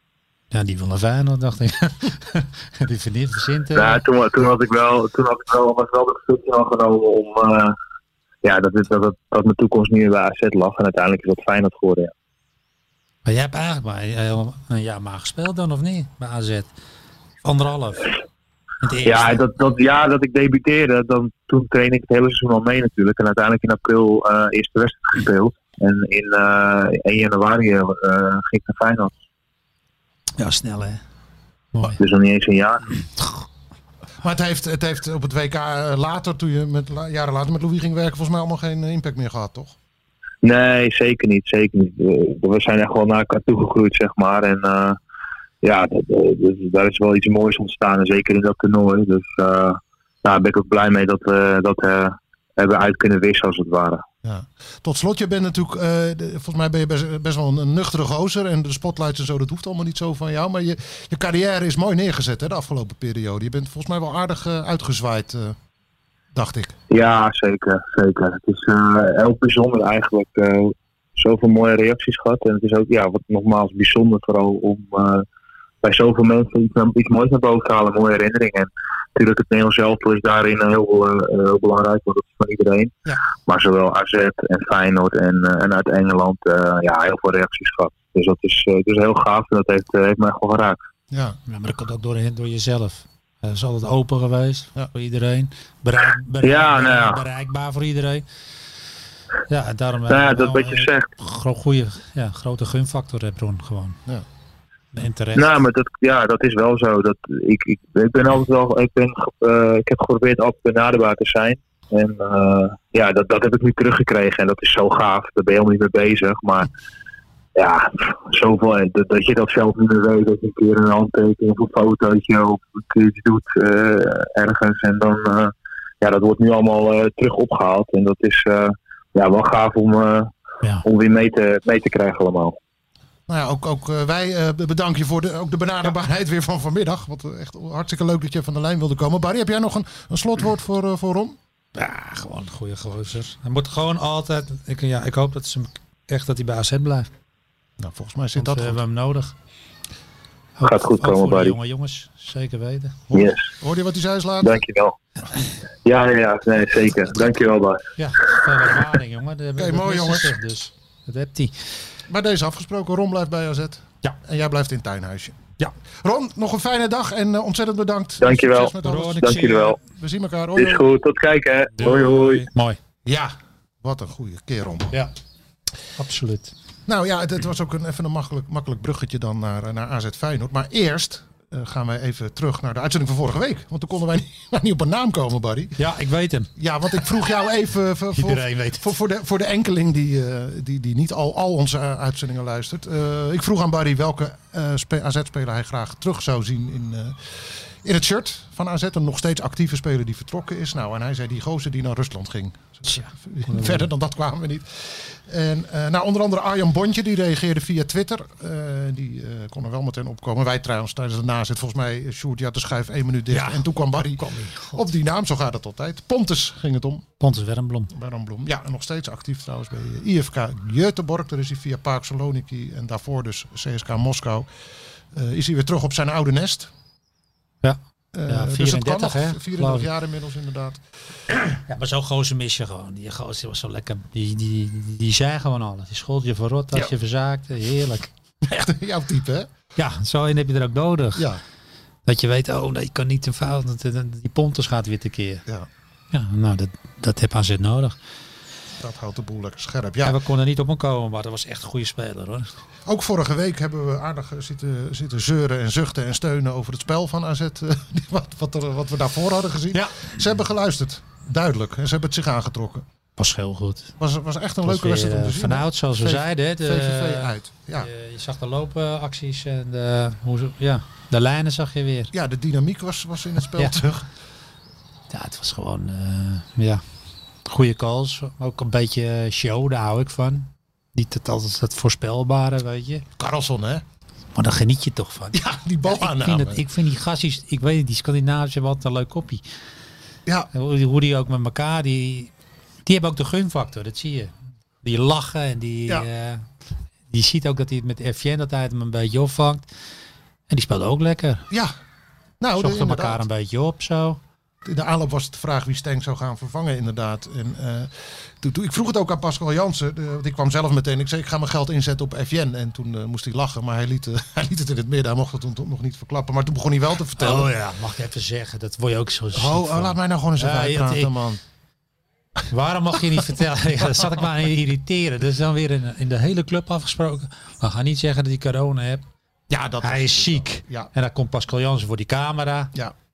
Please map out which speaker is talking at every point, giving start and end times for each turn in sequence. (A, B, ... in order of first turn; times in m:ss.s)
0:00.5-0:04.0 A
0:03.7-0:07.8 B
0:08.4-0:12.1 B
0:13.2-0:16.7 A
0:17.4-0:18.1 A
0:18.8-0:19.4 A
0:19.0-0:29.1 B
0:30.4-0:31.0 A
0:32.0-0:32.8 B
0:34.2-0:39.7 C
0:40.4-0:45.0 B
0:45.6-0:54.0 B
0:54.2-1:05.6 C
1:06.3-1:06.7 C
1:06.9-1:15.2 B
1:15.8-1:22.9 B
1:23.4-1:30.8 B
1:31.1-1:31.4 C
1:31.5-1:38.2 A
1:36.4-1:37.2 B
1:39.5-1:44.0 A
1:40.1-1:41.1 B
1:44.9-1:45.5 A
1:45.3-1:56.7 B
1:57.6-2:10.3 B
2:10.8-2:12.6 B
2:13.3-2:21.4 C
2:21.7-2:27.1 A
2:27.8-2:28.8 C
2:28.4-2:29.3 A
2:30.6-2:33.0 A
2:30.6-2:31.5 B
2:33.1-2:34.6 C
2:33.1-2:33.5 B
2:34.4-2:35.0 B
2:35.8-2:37.8 B
2:38.0-2:41.6 A
2:39.6-2:40.4 C
2:42.1-2:45.4 C
2:46.0-2:50.8 C
2:48.2-2:49.8 B
2:48.8-2:49.8 A
2:50.6-2:52.4 B
2:51.8-2:52.8 A
2:53.0-2:55.0 C
2:56.0-2:56.5 A
2:56.8-3:05.8 C
3:05.8-3:06.5 A
3:06.6-3:37.0 C
3:08.1-3:08.9 A
3:22.9-3:23.9 A
3:33.3-3:34.8 A
3:37.2-3:37.9 A
3:37.9-3:44.5 C
3:45.1-3:46.7 C
3:47.6-3:49.9 A
3:48.1-3:50.8 C
3:51.5-3:58.1 A
3:58.4-3:59.5 C
3:59.8-4:01.3 A
4:01.2-4:01.4 C
4:02.0-4:05.4 A
4:06.1-4:08.0 A
4:08.8-4:10.2 C
4:10.0-4:12.5 A
4:12.8-4:22.8 C
4:19.7-4:20.0 A
4:23.2-4:23.9 A
4:24.0-4:27.9 C
4:24.6-4:32.1 A
4:32.1-4:34.1 C
4:35.1-4:36.8 A
4:37.4-4:43.0 A
4:43.2-4:43.8 C
4:44.3-4:49.4 A
4:45.3-4:46.6 C
4:50.5-4:52.3 A
4:52.8-4:54.3 A
4:54.8-4:56.4 A
4:57.1-4:59.6 A
5:00.5-5:01.4 A
5:01.5-5:01.7 C
5:02.4-5:03.2 C
5:02.6-5:04.2 A
5:04.6-5:17.5 C
5:17.2-5:21.1 A
5:19.3-5:21.4 C
5:22.5-5:29.0 A
5:29.5-5:30.9 C
5:29.8-5:32.7 A